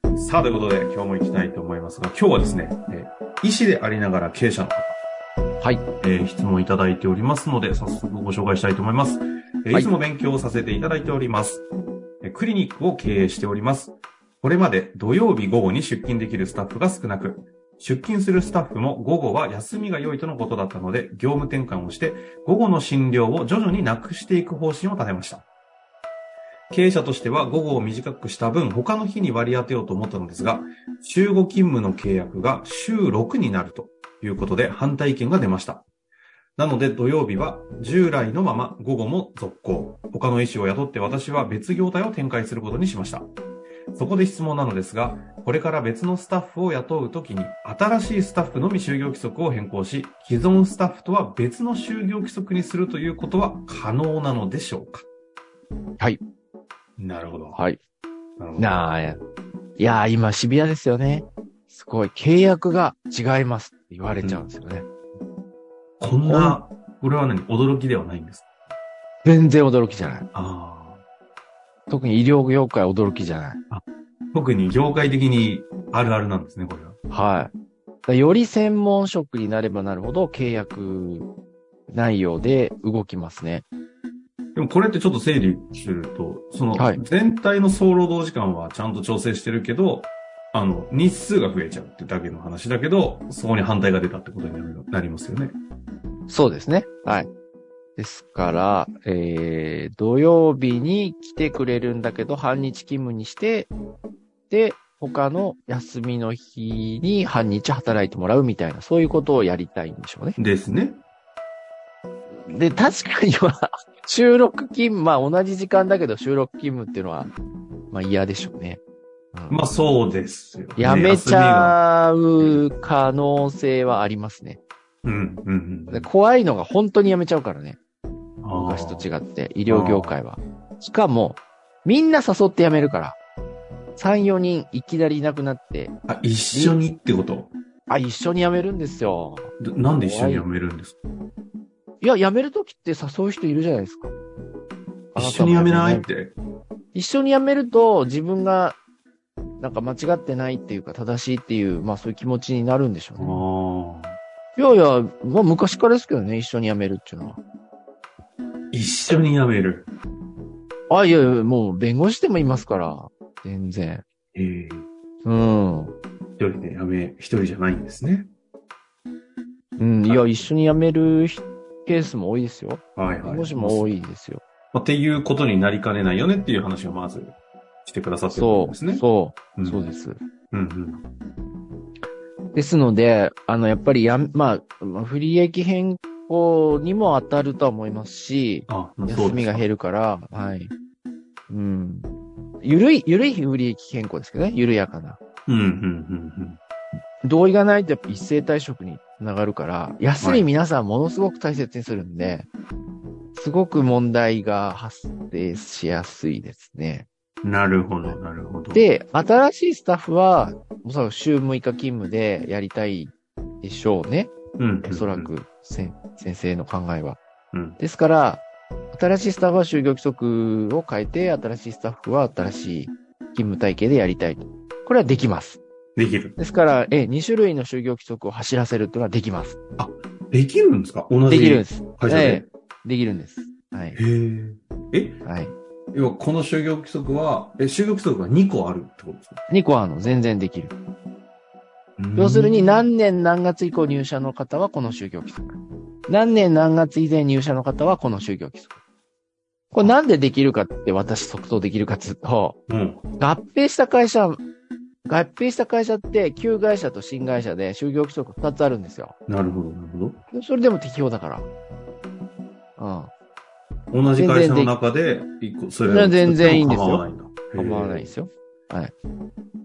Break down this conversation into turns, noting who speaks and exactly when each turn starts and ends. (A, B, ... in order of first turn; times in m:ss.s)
0:00.1-0:05.0 A
0:06.0-0:11.6 A
0:12.2-0:25.5 A
0:26.7-0:35.9 A
0:36.6-0:43.3 A
0:43.9-0:55.1 A
0:57.0-0:57.6 A
0:58.4-0:58.8 A
0:58.6-0:59.2 B
0:59.8-1:04.9 B
1:06.0-1:08.5 A
1:06.2-1:06.6 B
1:09.2-1:10.3 B
1:10.3-1:11.0 A
1:11.9-1:13.6 B
1:13.7-1:17.0 A
1:17.1-1:17.5 B
1:18.1-1:21.3 B
1:21.9-1:23.7 B
1:24.6-1:35.6 A
1:26.8-1:27.0 B
1:36.3-1:37.3 B
1:38.0-1:43.7 B
1:44.5-1:50.4 B
1:50.4-1:51.0 A
1:52.5-1:57.3 B
1:57.9-1:58.8 B
1:59.3-1:59.6 B
1:59.5-2:01.8 A
2:00.8-2:04.6 B
2:05.0-2:06.1 A
2:05.9-2:07.8 B
2:08.4-2:09.1 A
2:08.5-2:13.2 B
2:09.7-2:10.2 A
2:14.0-2:16.0 B
2:16.1-2:17.5 A
2:16.5-2:16.8 B
2:17.9-2:20.5 B
2:19.6-2:21.0 A
2:22.0-2:24.1 B
2:25.1-2:26.0 B
2:25.2-2:26.4 A
2:26.9-2:28.8 B
2:29.6-2:33.4 B
2:33.2-2:34.2 A
2:34.6-2:37.4 B
2:38.7-2:39.9 A
2:40.9-2:44.0 B
2:44.3-2:44.9 A
2:45.2-2:46.0 B
2:46.4-2:48.3 A
2:49.8-2:54.4 B
2:50.1-2:50.5 A
2:53.0-2:53.9 A
2:54.7-2:59.0 A
2:58.3-3:00.2 B
2:59.6-2:59.8 A
3:00.5-3:01.0 A
3:02.5-3:10.7 B
3:08.7-3:09.7 A
3:11.5-3:12.1 B
3:12.6-3:15.2 B
3:15.5-3:16.6 A
3:17.2-3:22.5 B
3:20.2-3:20.5 A
3:23.3-3:27.1 B
3:27.4-3:28.8 A
3:28.7-3:37.2 B
3:34.6-3:35.3 A
3:37.5-3:37.8 A
3:37.8-3:45.6 B
3:46.0-3:46.4 A
3:46.4-3:49.6 B
3:49.8-3:52.4 A
3:51.3-3:54.0 B
3:54.0-3:55.2 A
3:55.2-3:55.5 B
3:55.9-3:59.4 A
3:59.5-4:00.8 B
4:02.0-4:02.8 A
4:02.2-4:08.8 B
4:09.7-4:12.6 B
4:12.7-4:13.1 A
4:13.2-4:14.4 B
4:15.1-4:19.2 B
4:19.3-4:20.2 A
4:20.3-4:21.5 B
4:22.8-4:23.1 B
4:23.9-4:28.1 A
4:24.2-4:24.8 B
4:25.9-4:28.9 B